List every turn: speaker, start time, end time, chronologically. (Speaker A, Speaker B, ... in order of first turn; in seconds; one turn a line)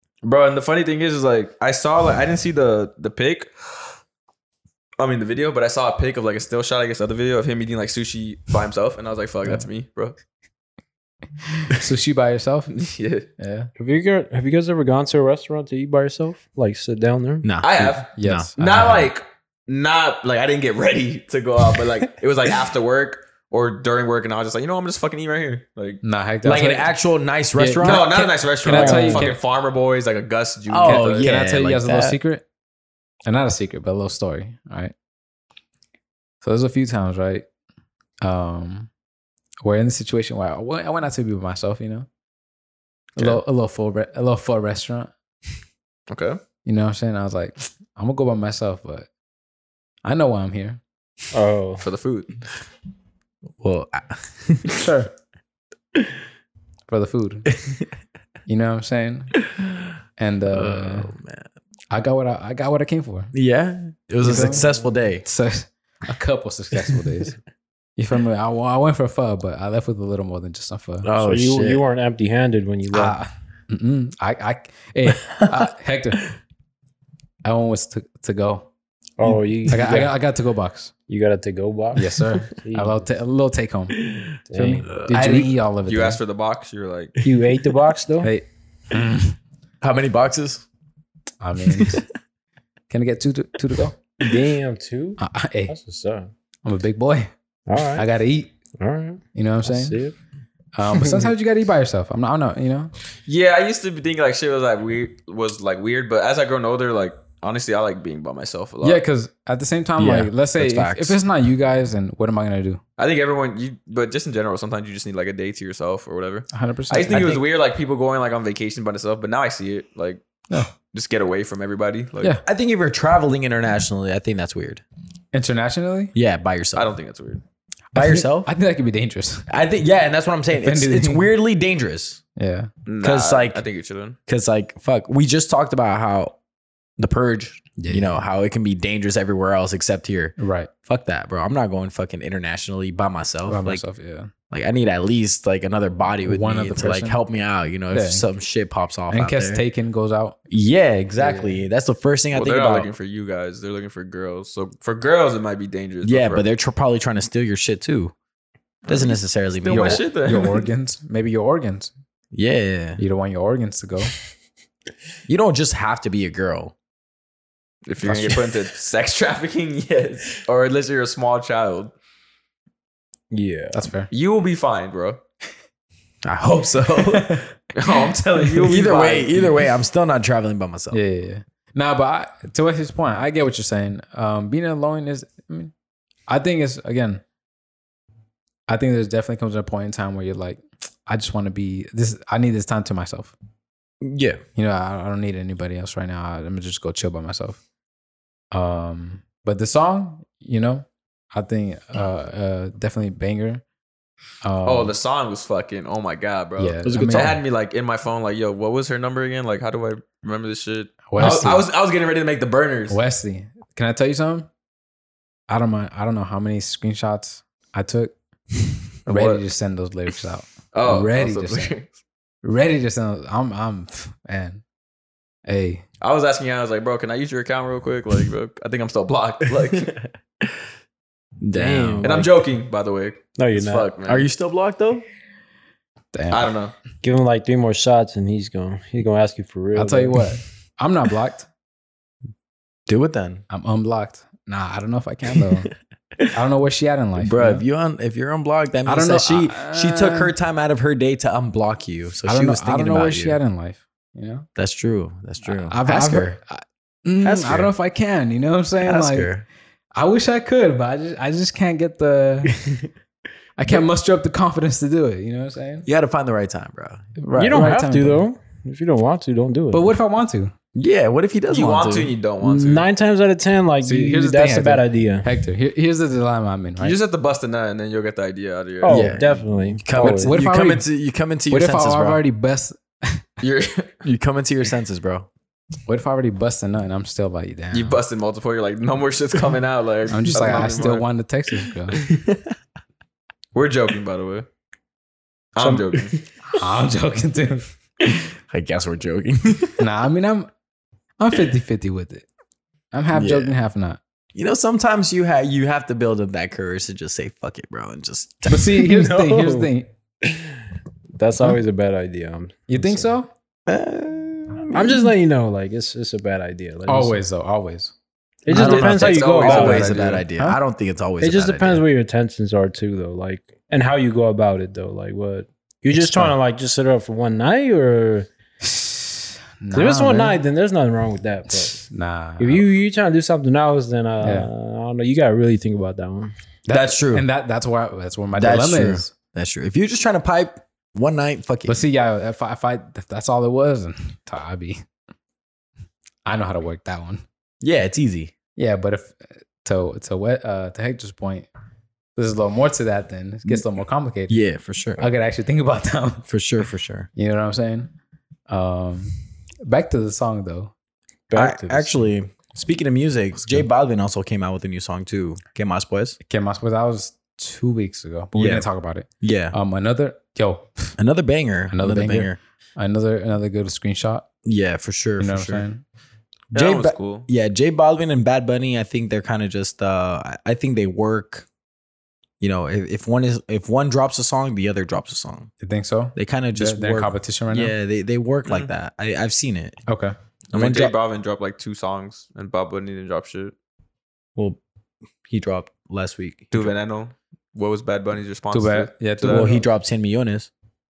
Speaker A: 0.2-3.5
Speaker A: 5.0-10.2
Speaker B: 11.5-12.7
Speaker A: 12.7-13.3
Speaker B: 13.4-13.7
Speaker C: 13.8-17.5
Speaker D: 17.4-19.1
Speaker A: 17.6-26.0
Speaker B: 18.2-19.0
Speaker B: 26.0-26.9
Speaker D: 26.4-29.3
Speaker B: 27.6-28.0
Speaker A: 27.8-31.3
Speaker B: 28.6-29.4
Speaker D: 30.7-32.2
Speaker B: 30.8-32.4
Speaker B: 33.3-34.9
Speaker B: 36.4-37.5
Speaker B: 38.2-38.9
Speaker B: 39.6-42.1
Speaker B: 43.2-45.1
Speaker A: 46.1-46.4
Speaker B: 46.6-49.1
Speaker B: 50.0-50.8
Speaker C: 51.3-51.9
Speaker A: 51.8-52.3
Speaker D: 53.6-54.8
Speaker B: 54.7-55.1
Speaker B: 56.9-57.5
Speaker B: 58.5-59.3
Speaker B: 60.2-61.1
Speaker D: 60.5-61.5
Speaker B: 61.9-63.3
Speaker D: 63.3-65.2
Speaker B: 64.2-64.7
Speaker B: 65.2-67.4
Speaker B: 68.0-71.1
Speaker D: 71.0-71.8
Speaker C: 71.2-73.2
Speaker B: 72.9-76.2
Speaker B: 77.5-78.7
Speaker C: 79.2-80.1
Speaker B: 79.3-80.9
Speaker C: 81.1-83.1
Speaker B: 82.0-84.0
Speaker C: 84.5-85.5
Speaker B: 84.5-86.2
Speaker A: 85.9-87.2
Speaker C: 87.2-88.3
Speaker B: 88.2-89.4
Speaker D: 89.8-90.7
Speaker B: 91.4-92.0
Speaker D: 91.7-92.0
Speaker B: 92.9-94.0
Speaker C: 94.2-96.3
Speaker B: 95.2-95.7
Speaker B: 96.7-98.5
Speaker C: 97.7-98.1
Speaker C: 98.8-100.2
Speaker B: 99.3-100.0
Speaker B: 100.8-102.9
Speaker D: 101.0-101.3
Speaker A: 103.3-109.0
Speaker B: 108.8-112.8
Speaker D: 110.0-111.2
Speaker A: 113.0-120.2
Speaker B: 116.5-117.2
Speaker D: 117.1-117.4
Speaker A: 120.7-122.4
Speaker D: 122.5-124.8
Speaker B: 125.3-126.1
Speaker D: 126.2-126.9
Speaker A: 126.8-127.4
Speaker B: 127.9-129.5
Speaker D: 128.0-128.5
Speaker D: 129.5-132.2
Speaker B: 130.5-131.3
Speaker B: 132.4-132.7
Speaker A: 132.9-134.2
Speaker D: 133.0-133.6
Speaker D: 134.3-136.4
Speaker D: 137.0-143.8
Speaker B: 137.8-138.2
Speaker B: 140.4-140.7
Speaker B: 143.5-144.3
Speaker D: 144.5-149.6
Speaker B: 146.2-147.2
Speaker B: 147.9-148.2
Speaker B: 149.1-150.4
Speaker D: 150.5-152.9
Speaker B: 151.2-151.6
Speaker A: 152.3-156.5
Speaker D: 156.0-158.1
Speaker D: 158.9-160.0
Speaker A: 158.9-160.7
Speaker B: 159.7-161.9
Speaker D: 162.3-163.0
Speaker B: 163.0-164.1
Speaker D: 165.3-166.7
Speaker A: 167.9-171.9
Speaker B: 168.1-168.4
Speaker C: 173.3-173.9
Speaker B: 173.7-174.1
Speaker A: 174.1-175.2
Speaker D: 176.2-177.4
Speaker A: 177.7-179.6
Speaker D: 178.6-181.0
Speaker B: 180.9-185.7
Speaker B: 186.3-187.2
Speaker B: 188.7-193.3
Speaker D: 194.0-194.4
Speaker B: 194.6-197.6
Speaker B: 198.5-203.6
Speaker B: 204.4-204.9
Speaker A: 204.7-213.0
Speaker B: 206.6-207.4
Speaker D: 206.8-207.4
Speaker B: 211.1-211.7
Speaker B: 212.9-214.5
Speaker B: 215.5-218.1
Speaker A: 219.1-219.4
Speaker B: 219.1-221.7
Speaker A: 220.7-221.9
Speaker B: 222.4-224.6
Speaker B: 225.5-225.8
Speaker A: 226.0-230.0
Speaker D: 231.4-232.3
Speaker C: 231.5-232.3
Speaker A: 232.0-234.3
Speaker C: 233.4-233.9
Speaker D: 234.1-235.1
Speaker B: 236.1-236.5
Speaker A: 236.3-236.7
Speaker C: 237.0-240.2
Speaker B: 239.8-241.5
Speaker D: 242.9-243.4
Speaker B: 243.5-245.7
Speaker B: 246.3-247.6
Speaker D: 247.2-253.4
Speaker B: 248.9-250.3
Speaker B: 252.3-254.5
Speaker D: 254.6-256.4
Speaker B: 255.5-259.3
Speaker D: 257.2-257.7
Speaker D: 258.8-259.4
Speaker B: 259.9-262.5
Speaker B: 263.6-265.9
Speaker D: 265.9-267.1
Speaker B: 267.2-268.3
Speaker C: 267.4-269.9
Speaker B: 269.7-270.5
Speaker D: 270.8-272.1
Speaker A: 271.5-272.9
Speaker C: 272.4-275.3
Speaker B: 273.8-276.9
Speaker A: 276.8-279.4
Speaker C: 278.8-280.4
Speaker D: 278.9-279.2
Speaker D: 279.8-282.2
Speaker B: 279.9-280.9
Speaker B: 281.5-283.2
Speaker A: 283.4-284.0
Speaker D: 284.0-285.3
Speaker B: 285.9-288.0
Speaker A: 287.7-291.1
Speaker B: 290.1-292.0
Speaker D: 292.1-292.5
Speaker A: 293.5-294.5
Speaker A: 295.6-296.2
Speaker B: 296.5-297.7
Speaker D: 298.5-299.8
Speaker B: 299.8-300.5
Speaker B: 301.2-302.3
Speaker B: 302.9-304.0
Speaker D: 303.1-303.5
Speaker D: 304.3-309.7
Speaker B: 308.5-309.9
Speaker C: 311.2-313.1
Speaker B: 312.7-313.3
Speaker D: 313.7-315.1
Speaker C: 314.7-317.2
Speaker B: 316.9-317.9
Speaker C: 318.4-320.0
Speaker B: 318.5-319.4
Speaker D: 318.5-321.8
Speaker A: 318.6-320.3
Speaker C: 321.2-328.3
Speaker B: 325.9-326.4
Speaker B: 328.6-330.4
Speaker C: 329.7-331.9
Speaker B: 331.8-332.7
Speaker C: 332.4-336.3
Speaker B: 334.2-334.5
Speaker B: 336.7-339.1
Speaker D: 336.7-337.3
Speaker D: 338.4-341.8
Speaker B: 341.7-344.8
Speaker B: 346.3-347.2
Speaker D: 347.6-348.3
Speaker B: 348.6-351.5
Speaker B: 352.2-354.4
Speaker D: 354.3-355.1
Speaker B: 355.0-356.3
Speaker D: 356.3-357.1
Speaker B: 357.2-357.9
Speaker B: 358.5-359.1
Speaker B: 359.6-360.7
Speaker C: 361.3-362.1
Speaker D: 361.3-366.2
Speaker B: 366.2-371.0
Speaker D: 368.3-368.7
Speaker D: 369.2-369.6
Speaker D: 371.0-372.4
Speaker B: 371.7-374.3
Speaker D: 374.4-375.6
Speaker B: 375.2-375.8
Speaker A: 376.5-377.3
Speaker D: 376.5-381.5
Speaker D: 382.4-385.5
Speaker B: 385.6-387.8
Speaker D: 386.1-389.8
Speaker A: 388.5-388.7
Speaker B: 389.9-390.1
Speaker A: 390.5-393.5
Speaker D: 390.5-390.9
Speaker D: 395.3-396.7
Speaker A: 396.5-399.5
Speaker B: 398.5-399.6
Speaker D: 399.2-400.5